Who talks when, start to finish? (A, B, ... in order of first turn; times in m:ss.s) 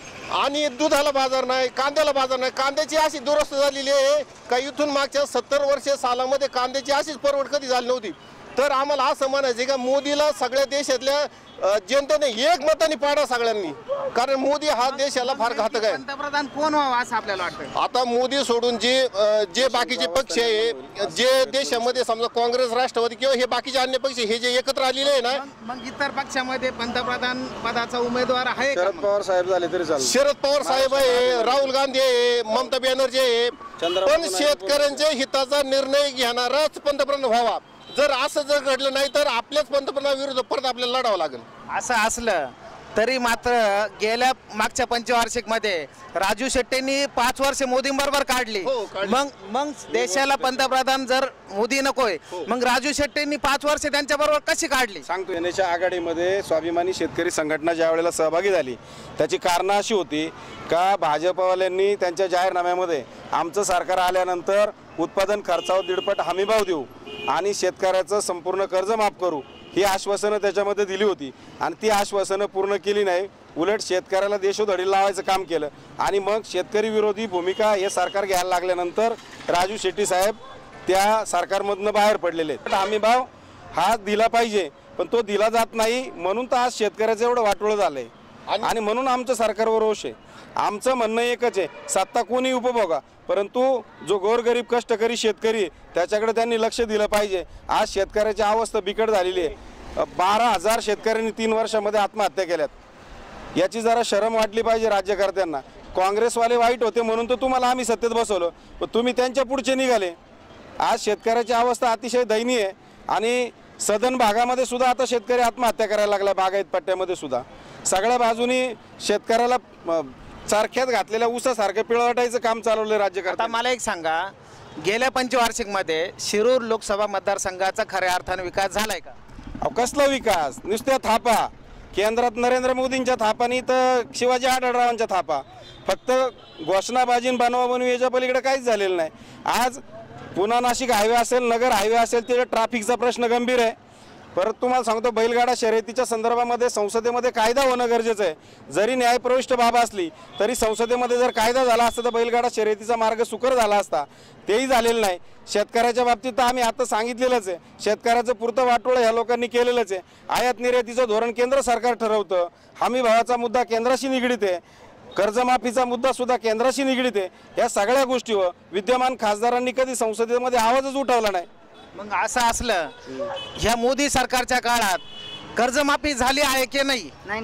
0:00.3-0:16.0 A
0:14.8-0:17.7 B
0:17.8-0:25.4 A
0:25.3-0:29.1 B
0:28.8-0:30.1 C
0:30.0-0:41.5 A
0:30.6-0:31.7 C
0:33.8-0:34.9 C
0:41.7-0:55.0 B
0:48.6-0:49.2 A
0:49.9-0:50.6 A
0:55.1-1:28.1 C
1:28.6-1:42.7 C
1:43.6-1:50.2 C
1:50.8-2:03.6 C
2:03.3-2:09.2 B
2:09.6-2:19.8 C
2:20.4-2:23.8 C
2:24.4-2:44.6 C
2:45.2-2:51.5 C
2:52.0-2:53.0 B
2:53.6-2:55.0 B
2:55.6-2:57.2 B